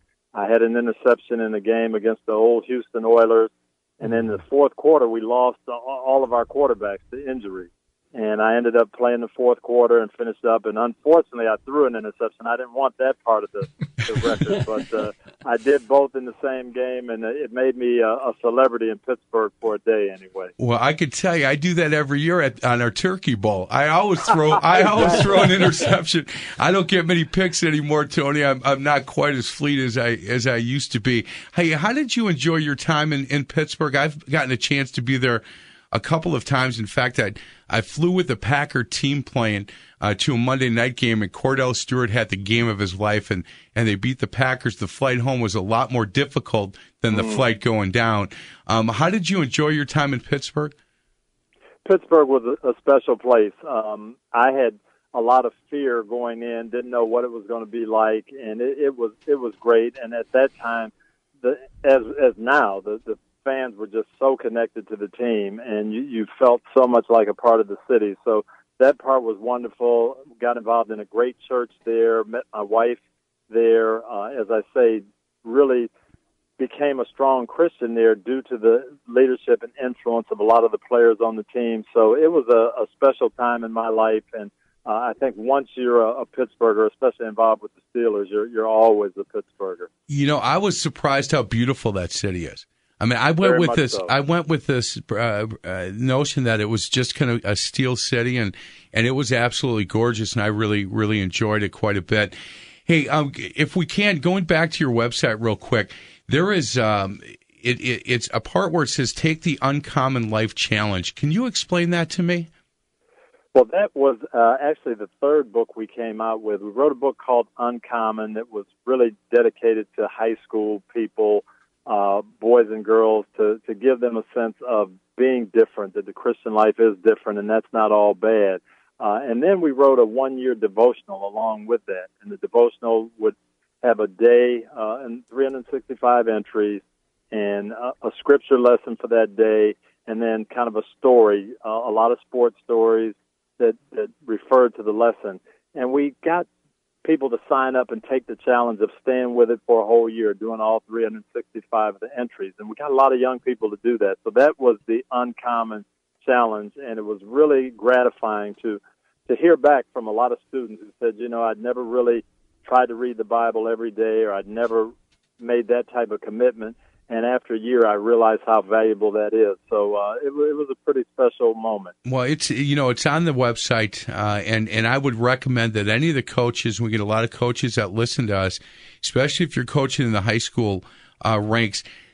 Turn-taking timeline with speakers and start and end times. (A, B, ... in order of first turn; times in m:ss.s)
0:00.3-0:20.5 A
0:20.6-0:50.7 B
0:24.8-0:25.4 A
0:47.1-0:47.4 A
0:51.8-1:13.0 A
1:13.5-1:15.9 A
1:16.6-1:29.9 A
1:30.1-1:42.4 B
1:33.4-1:34.1 A
1:42.9-1:52.5 B
1:53.6-2:26.5 A
2:27.0-2:51.9 A
2:52.1-3:01.8 B